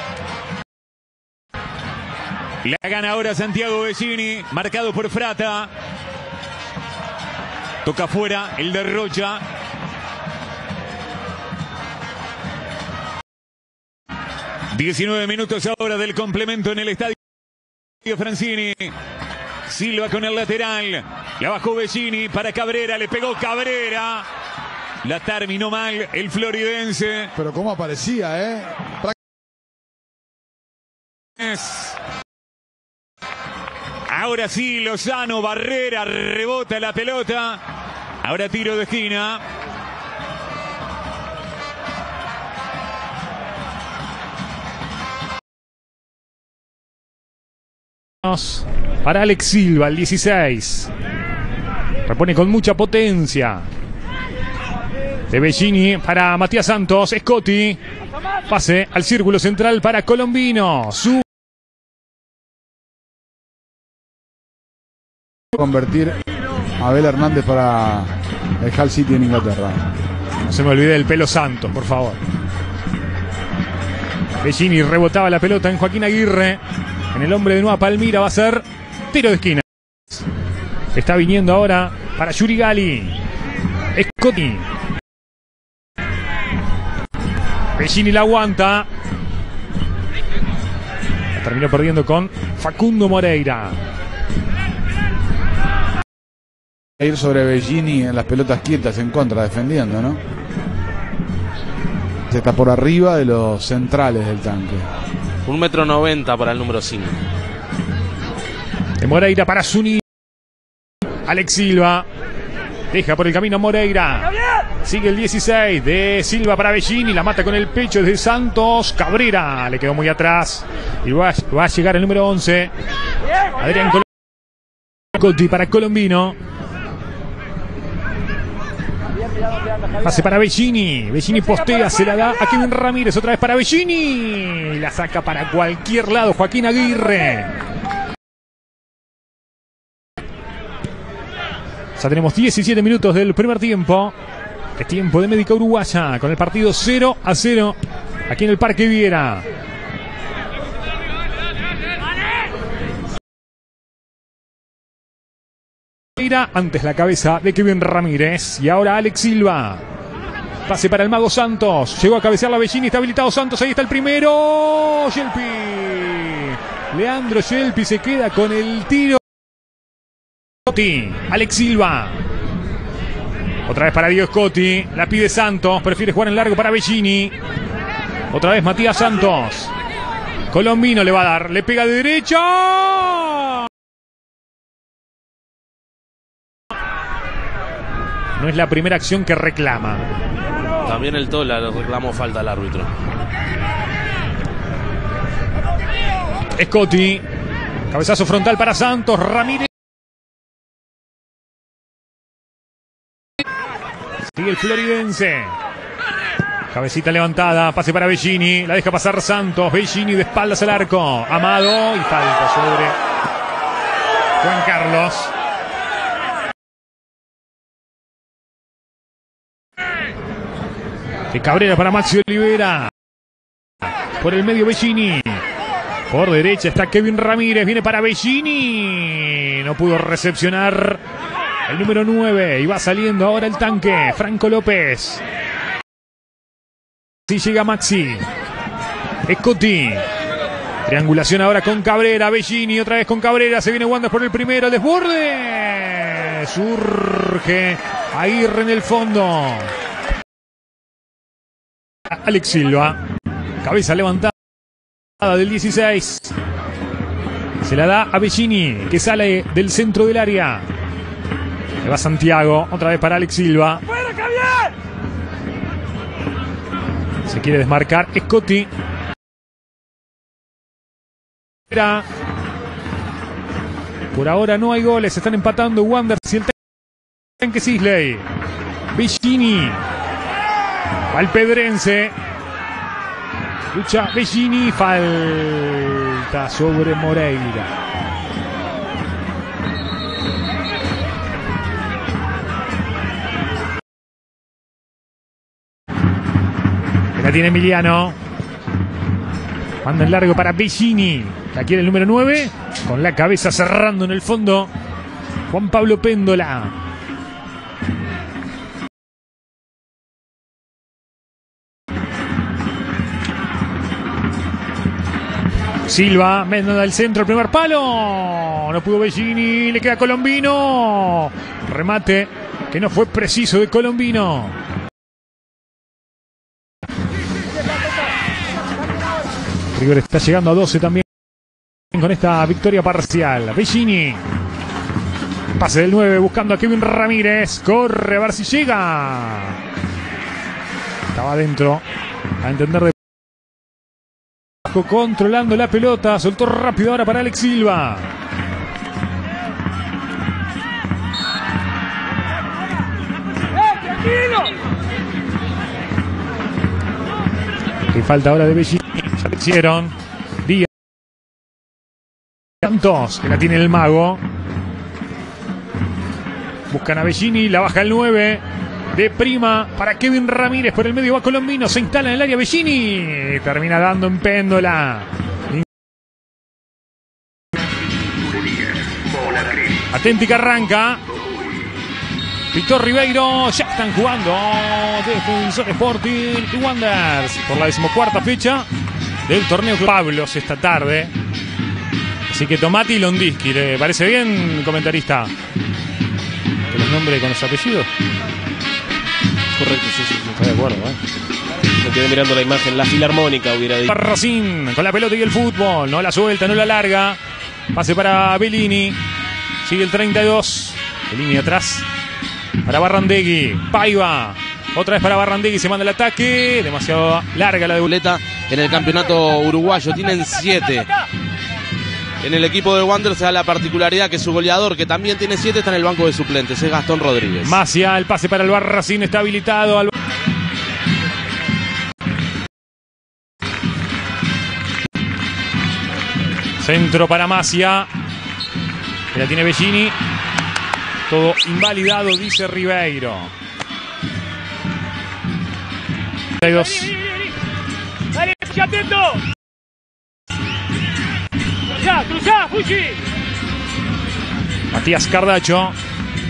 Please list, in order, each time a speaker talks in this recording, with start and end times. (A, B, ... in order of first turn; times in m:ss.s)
0:02.6-0:05.7 A
0:07.8-0:09.4 A
0:14.7-0:17.2 A
0:18.0-0:18.9 A
0:19.7-0:24.3 A
0:25.0-0:27.3 A
0:27.4-0:29.2 B
0:31.4-0:32.0 A
0:34.1-0:37.6 A
0:38.2-0:39.4 A
0:48.2-0:50.9 C
0:52.1-0:53.7 C
0:55.3-0:57.8 C
0:58.5-1:01.2 C
1:05.5-1:06.2 B
1:06.8-1:09.9 B
1:10.5-1:12.2 C
1:14.4-1:16.6 C
1:17.1-1:20.2 C
1:20.9-1:23.2 C
1:23.9-1:24.7 C
1:27.8-1:28.9 C
1:31.4-1:33.8 C
1:37.0-1:40.2 B
1:42.3-1:44.9 B
1:45.4-1:47.2 D
1:49.0-1:50.0 C
1:51.2-1:52.1 C
1:52.9-1:54.3 C
1:54.8-2:02.7 C
2:03.6-2:04.0 C
2:05.2-2:06.4 C
2:10.0-2:17.5 C
2:22.0-2:24.2 C
2:24.8-2:29.4 C
2:36.2-2:39.8 C
2:40.7-2:49.2 C
2:50.7-2:52.2 C
2:53.7-2:57.3 C
2:58.3-2:59.7 C
3:00.5-3:03.6 C
3:08.4-3:10.0 C
3:10.8-3:12.9 D
3:16.6-3:17.2 C
3:17.9-3:19.7 C
3:24.3-3:25.6 C
3:26.7-3:33.0 C
3:34.4-3:35.3 C
3:41.3-3:42.9 C
3:44.2-3:45.4 C
3:46.1-3:51.0 C
3:51.7-3:55.2 C
3:57.3-3:58.3 C
3:59.3-4:00.0 C
4:00.9-4:09.7 C
4:12.1-4:13.0 C
4:13.6-4:14.3 C
4:15.2-4:16.3 C
4:17.6-4:20.7 C
4:21.8-4:23.8 C
4:27.3-4:28.7 C
4:31.7-4:32.1 C
4:34.1-4:36.6 C
4:37.4-4:38.3 C
4:38.9-4:39.8 C
4:41.1-4:42.2 C
4:43.7-4:47.7 C
4:57.2-4:58.2 C
4:59.8-5:04.7 C
5:05.5-5:06.7 C
5:15.9-5:24.6 C
5:29.8-5:31.0 C
5:31.9-5:34.2 C
5:35.6-5:39.6 C
5:41.1-5:41.8 C
5:42.4-5:42.9 C
5:44.6-5:48.1 C
5:57.9-6:00.7 C
6:02.6-6:04.2 C
6:06.7-6:15.6 C
6:19.9-6:21.0 C
6:22.5-6:28.7 C
6:29.3-6:31.1 C
6:32.3-6:35.3 C
6:36.7-6:37.9 C
6:39.6-6:40.3 E
6:40.3-6:41.0 C
6:41.8-6:43.9 E
6:43.9-6:47.2 C
6:47.7-6:49.0 C
6:49.6-6:51.9 C
6:52.7-6:57.9 C
6:57.8-7:00.9 D
7:02.2-7:07.6 D
7:07.4-7:09.9 C
7:16.6-7:17.9 C
7:19.1-7:20.0 C
7:21.1-7:23.3 C
7:26.4-7:27.0 C
7:32.1-7:32.6 C
7:34.7-7:35.8 C